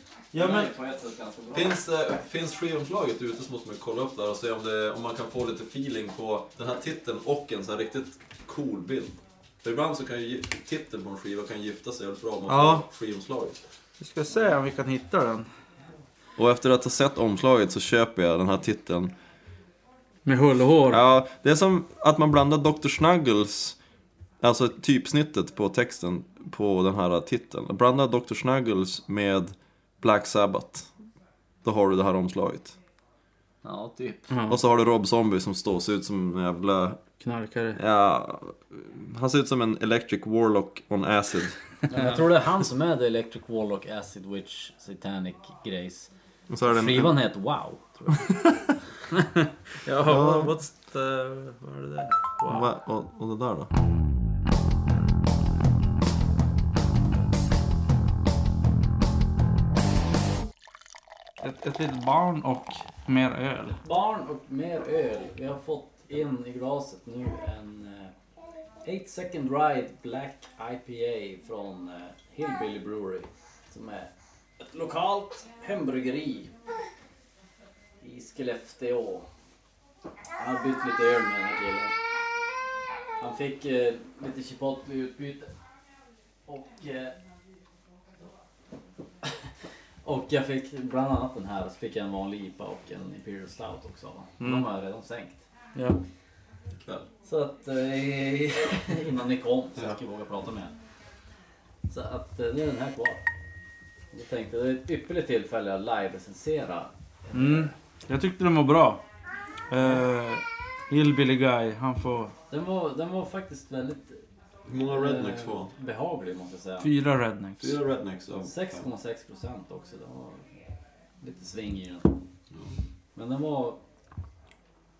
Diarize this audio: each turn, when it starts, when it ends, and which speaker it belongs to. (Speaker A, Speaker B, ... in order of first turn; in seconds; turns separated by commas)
Speaker A: 0.3-0.7, Speaker B: 0.3-1.8, Speaker C: 1.5-13.6, Speaker A: 12.5-12.8, Speaker A: 14.0-15.5, Speaker C: 16.4-19.1, Speaker A: 20.2-21.0, Speaker C: 20.9-23.8, Speaker C: 24.4-30.9, Speaker C: 31.6-32.8, Speaker B: 33.6-34.3, Speaker A: 34.3-34.6, Speaker C: 34.5-37.0, Speaker A: 37.2-37.8, Speaker C: 37.8-41.6, Speaker B: 41.9-46.1, Speaker C: 46.5-47.2, Speaker B: 46.6-48.3, Speaker A: 49.9-52.7, Speaker C: 50.0-50.5, Speaker C: 52.5-53.7, Speaker A: 61.4-63.8, Speaker B: 63.8-68.1, Speaker B: 68.8-76.5, Speaker B: 78.0-79.3, Speaker B: 80.4-81.9, Speaker B: 83.2-85.5, Speaker B: 86.5-87.2, Speaker B: 90.0-95.4, Speaker A: 94.4-94.7, Speaker A: 95.8-96.0, Speaker B: 97.2-100.7, Speaker B: 101.9-103.2, Speaker B: 104.1-107.7, Speaker A: 107.3-109.0, Speaker A: 109.7-112.3, Speaker B: 112.5-114.2, Speaker C: 114.7-115.7, Speaker B: 114.8-116.9, Speaker A: 116.8-117.8, Speaker C: 117.6-118.8, Speaker B: 118.3-120.5, Speaker B: 121.2-122.2, Speaker B: 123.2-123.8